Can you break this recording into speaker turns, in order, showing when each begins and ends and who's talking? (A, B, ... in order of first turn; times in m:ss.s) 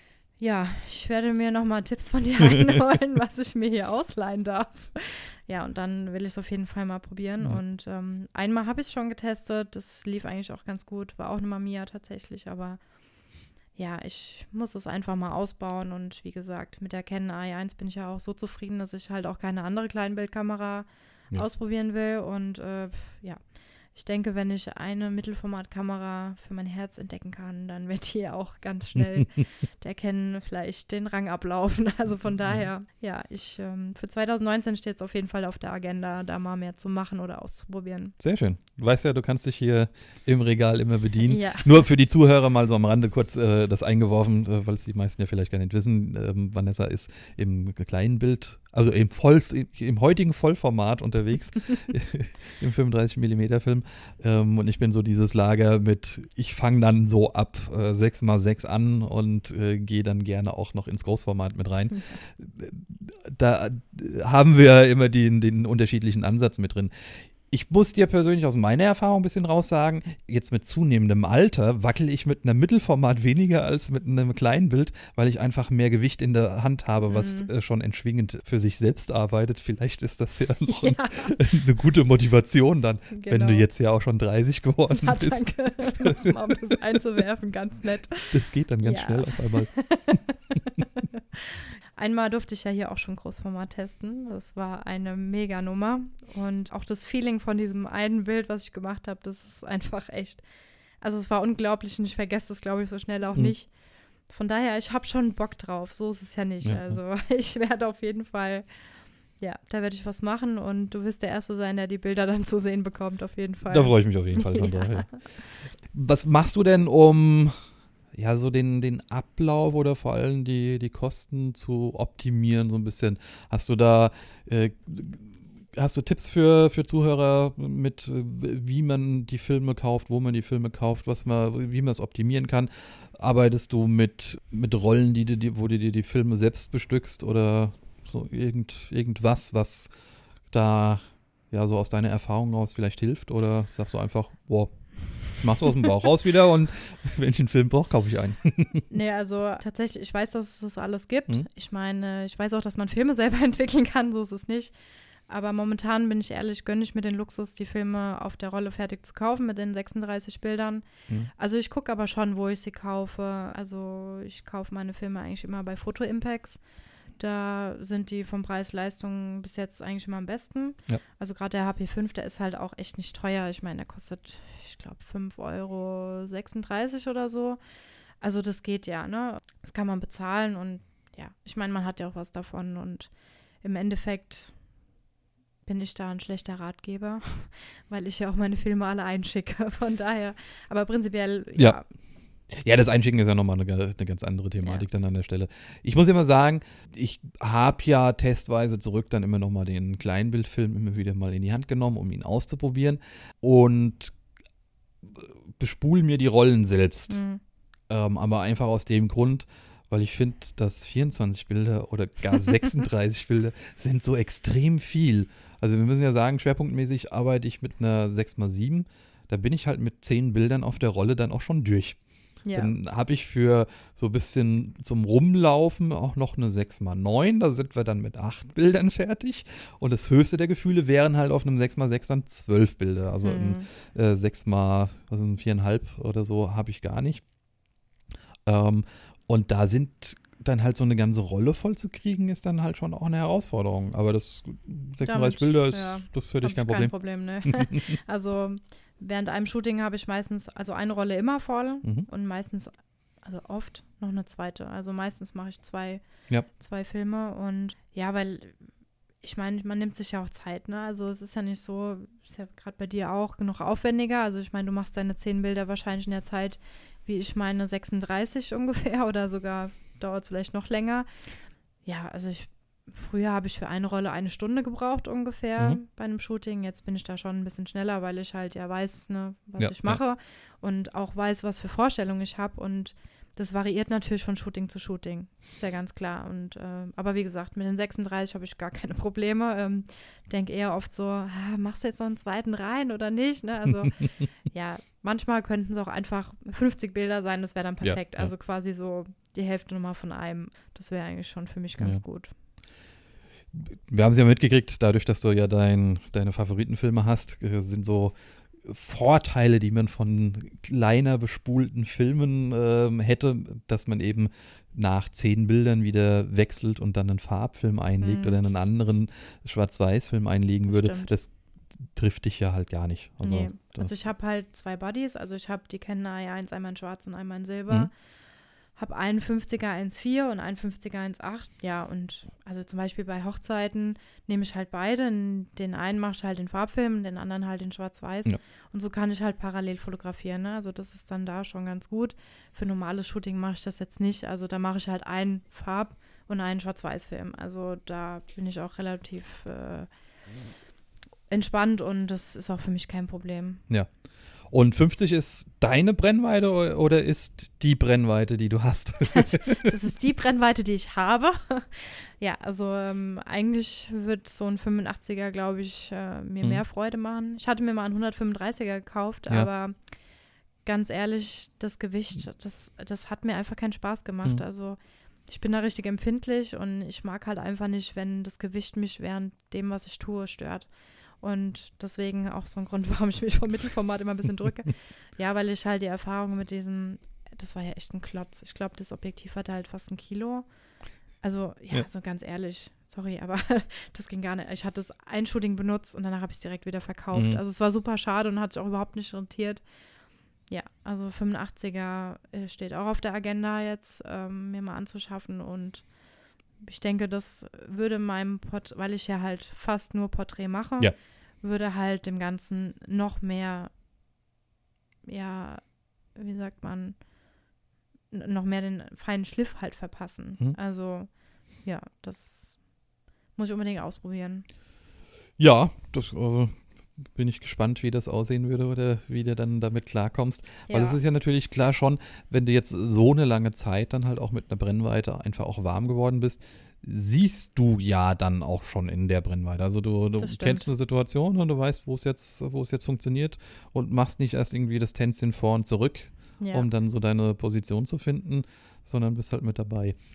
0:00.4-0:12.8 A
0:13.8-0:23.4 A
0:23.9-0:38.2 A
0:38.2-1:26.8 B
0:41.3-0:41.7 A
1:17.1-1:17.5 A
1:20.7-1:21.4 A
1:23.1-1:23.7 A
1:24.9-1:40.4 A
1:28.3-1:30.2 B
1:41.0-1:43.7 A
1:44.3-1:48.7 A
1:46.6-1:47.0 B
1:49.4-1:55.2 A
1:53.7-1:57.6 B
1:58.1-2:19.9 B
2:20.5-2:28.9 B
2:28.9-2:34.7 A
2:35.3-2:46.6 A
2:47.2-2:57.6 A
2:58.2-3:03.1 A
3:03.6-3:04.5 A
3:05.7-3:11.9 A
3:12.5-3:24.2 B
3:25.0-3:27.2 B
3:27.1-3:27.4 A
3:27.9-3:42.0 B
3:42.4-3:42.7 A
3:42.5-3:57.2 B
3:53.2-3:53.7 A
3:58.5-4:06.9 B
4:05.0-4:18.6 A
4:07.4-4:08.0 B
4:19.2-4:31.1 A
4:31.9-5:02.3 A
4:39.6-4:40.0 B
4:57.8-4:58.3 B
5:03.5-5:21.3 B
5:18.0-5:18.4 A
5:20.7-5:21.1 A
5:21.9-5:24.0 B
5:23.2-5:27.9 A
5:28.8-5:49.9 A
5:51.3-5:53.6 A
5:54.5-5:59.7 B
5:59.1-6:09.8 A
6:10.6-6:20.7 A
6:21.2-6:30.5 A
6:31.2-6:39.6 A
6:37.1-6:37.4 B
6:40.5-6:45.9 A
6:46.6-6:53.7 A
6:55.1-6:57.0 A
6:58.1-7:01.1 A
7:01.6-7:02.6 A
7:03.4-7:04.5 A
7:05.4-7:30.0 B
7:10.7-7:11.0 A
7:20.2-7:20.7 A
7:26.4-7:26.7 A